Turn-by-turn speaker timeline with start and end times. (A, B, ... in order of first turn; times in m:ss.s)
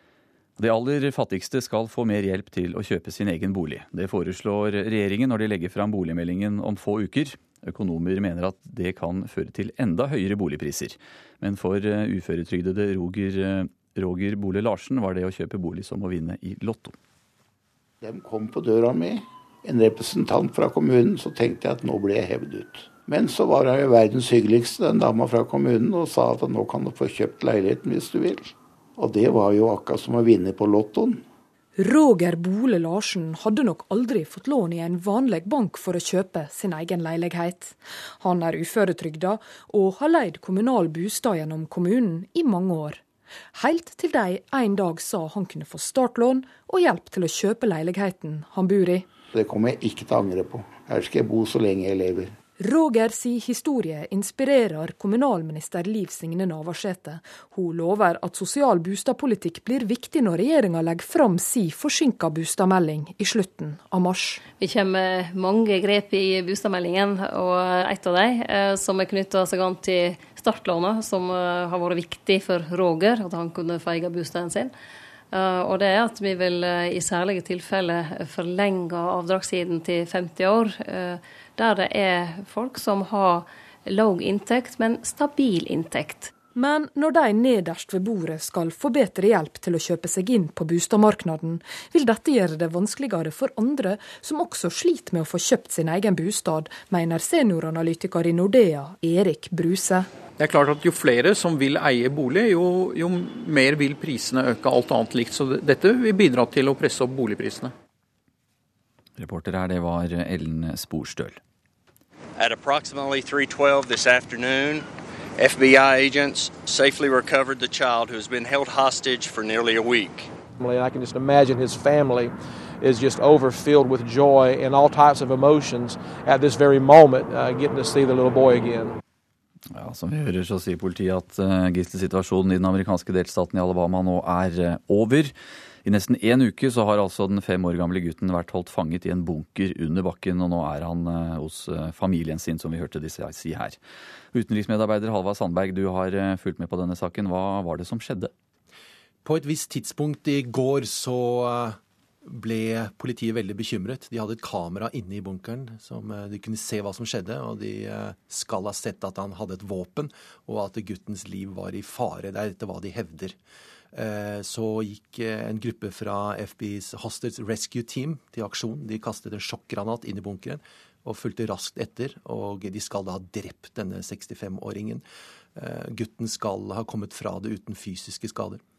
0:00.6-0:17.0 A
0:18.0-0:31.2 B
0:31.8-0:49.1 C
0:49.3-0:52.3 B
0:52.6-1:04.4 C
1:04.6-1:14.7 D
1:15.3-1:26.3 D
1:26.6-1:40.1 C
1:40.4-1:47.7 E
1:49.2-1:51.4 A
1:52.4-2:00.3 F
2:00.6-2:02.3 G
2:02.8-2:08.8 G
2:09.8-2:15.3 A
2:15.8-2:23.8 A
2:24.3-2:28.3 A
2:29.2-2:43.4 H
2:43.9-2:55.0 H
2:55.6-2:58.6 H